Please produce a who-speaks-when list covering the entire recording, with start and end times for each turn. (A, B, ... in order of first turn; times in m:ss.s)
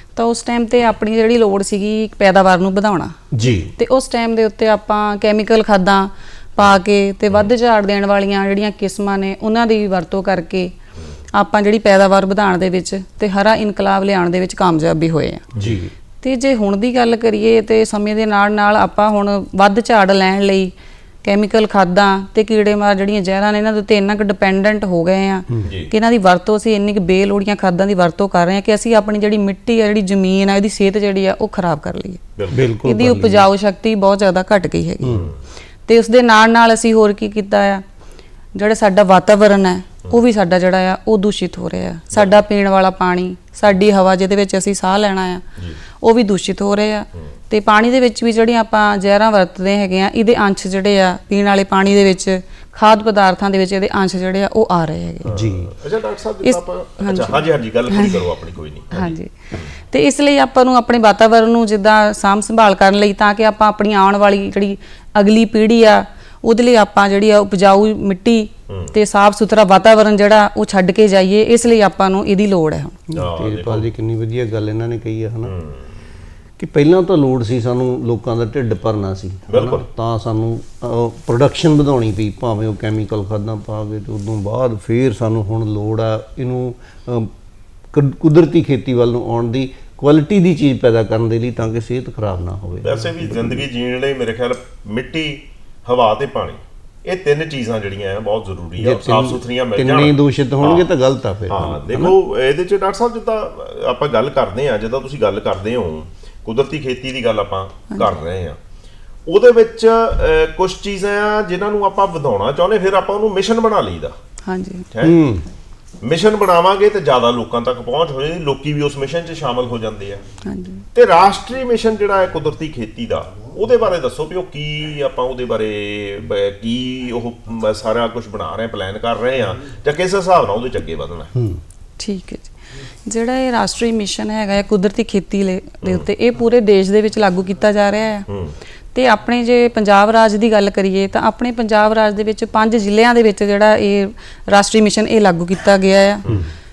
0:00.1-0:03.2 A
0:03.3-0:03.7 B
0:03.7-0:10.7 A
0:11.3-0:15.5 A
0:15.5-0:15.8 C
0:15.5-0:15.9 B
0:16.2-0:20.7 A
0:21.2-0:35.3 A
0:25.6-0:25.9 C
0:32.4-0:32.7 C
0:32.5-0:33.5 B
0:35.0-0:35.3 B
0:35.1-0:35.4 C
0:35.9-0:37.8 A
0:38.5-0:45.4 A
0:46.0-0:55.3 A
0:55.3-0:59.7 C
0:55.3-0:55.7 B
0:56.4-0:58.2 A
0:58.9-1:13.0 A
1:08.7-1:09.0 C
1:13.1-1:15.5 B
1:13.1-1:13.9 C
1:15.4-1:15.9 C
1:16.6-1:27.3 B
1:19.5-1:19.8 C
1:27.9-1:33.6 B
1:32.8-1:40.9 C
1:38.8-1:42.2 B
1:41.5-1:48.6 C
1:49.3-1:54.1 C
1:54.5-1:54.9 A
1:54.9-1:55.2 C
1:55.0-1:55.5 B
1:56.0-2:00.2 C
2:00.4-2:00.9 A
2:01.0-2:11.3 C
2:11.4-2:11.6 B
2:12.0-2:18.3 A
2:15.8-2:16.1 C
2:18.3-2:18.5 C
2:18.9-2:26.3 A